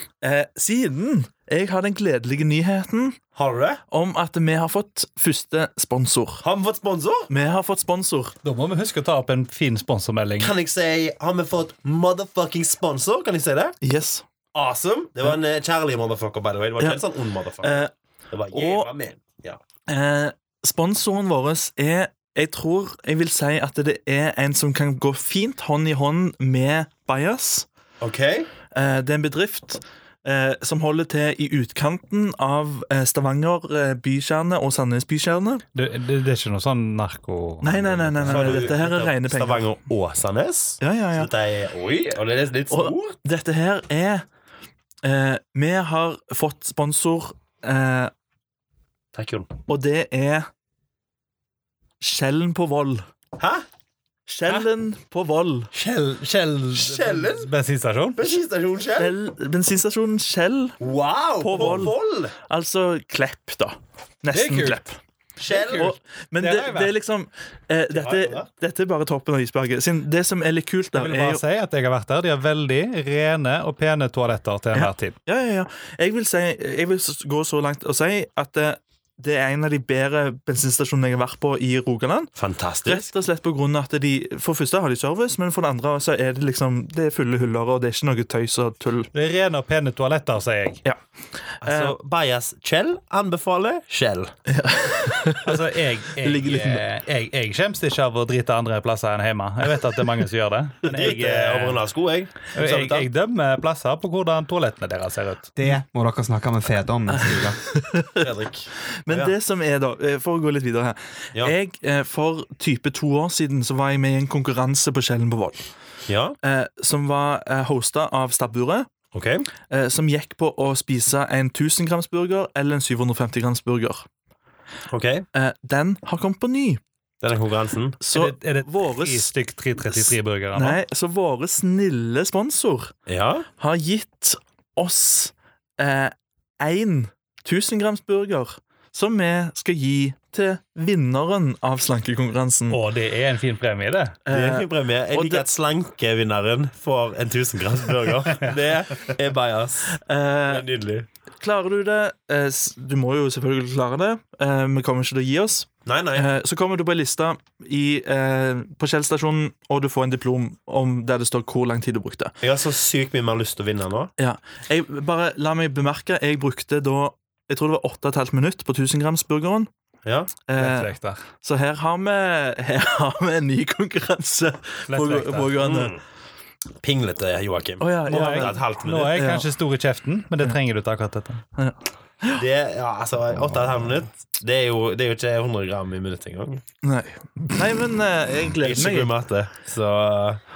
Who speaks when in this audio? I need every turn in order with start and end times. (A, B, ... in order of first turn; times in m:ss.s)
0:00.2-0:03.2 A
0:03.3-0:03.8 B
0:03.9-0:06.4 A
0:06.4-0:07.3 B
0:07.3-0:08.4 A
0:08.4-0:10.5 C
0:10.4-0:13.7 B
0:13.8-0:14.2 A
0:14.5-0:17.7 B
0:17.6-0:17.9 A
0:18.3-0:19.6 B
0:18.5-0:18.9 A
0:19.9-0:27.6 A
0:28.0-0:28.5 B
0:28.7-0:35.6 A
0:35.7-0:38.6 C
0:37.6-0:39.7 A
0:38.2-0:43.1 B
0:40.8-0:41.3 A
0:42.7-0:44.2 A
0:45.0-0:48.1 A
0:49.1-0:49.5 B
0:49.7-0:50.5 A
0:52.0-0:53.0 A
0:53.4-0:53.6 B
0:54.3-0:55.7 A
0:55.7-0:58.2 C
0:56.7-0:57.5 B
0:58.2-0:59.1 B
0:59.0-1:00.8 A
1:00.8-1:02.3 B
1:01.4-1:05.0 A
1:04.3-1:04.8 C
1:05.4-1:05.9 B
1:05.5-1:06.9 C
1:05.5-1:11.4 A
1:07.9-1:08.5 B
1:10.9-1:15.2 C
1:14.7-1:22.3 A
1:22.4-1:23.0 B
1:22.8-1:29.1 A
1:29.1-1:30.8 C
1:31.5-1:31.9 A
1:31.6-1:34.3 B
1:34.5-1:35.6 A
1:35.4-1:41.8 C
1:36.2-1:36.8 A
1:40.8-1:43.1 B
1:42.5-1:45.5 C
1:45.6-1:47.6 D
1:47.1-1:48.3 A
1:48.2-1:49.3 B
1:49.0-1:55.7 A
1:56.1-1:56.4 B
1:56.4-1:58.9 A
1:59.1-1:59.4 B
1:59.7-2:04.1 A
2:04.9-2:05.2 B
2:05.3-2:06.8 A
2:07.2-2:08.0 B
2:08.0-2:09.3 A
2:08.1-2:10.8 C
2:09.9-2:12.9 A
2:13.1-2:13.5 B
2:13.6-2:22.8 A
2:22.7-2:24.2 C
2:24.2-2:25.5 A
2:24.3-2:31.1 B
2:30.0-2:30.7 A
2:31.4-2:42.4 A
2:35.8-2:36.3 B
2:42.4-2:44.1 B
2:44.2-2:49.7 A
2:50.5-2:55.9 A
2:50.6-2:51.2 C
2:54.9-2:55.5 C
2:55.6-2:56.0 B
2:56.8-2:59.2 B
2:57.8-2:58.6 A
2:58.1-3:01.4 C
2:59.1-2:59.5 A
3:01.6-3:02.4 A
3:02.3-3:06.6 B
3:06.8-3:09.1 A
3:08.6-3:10.4 B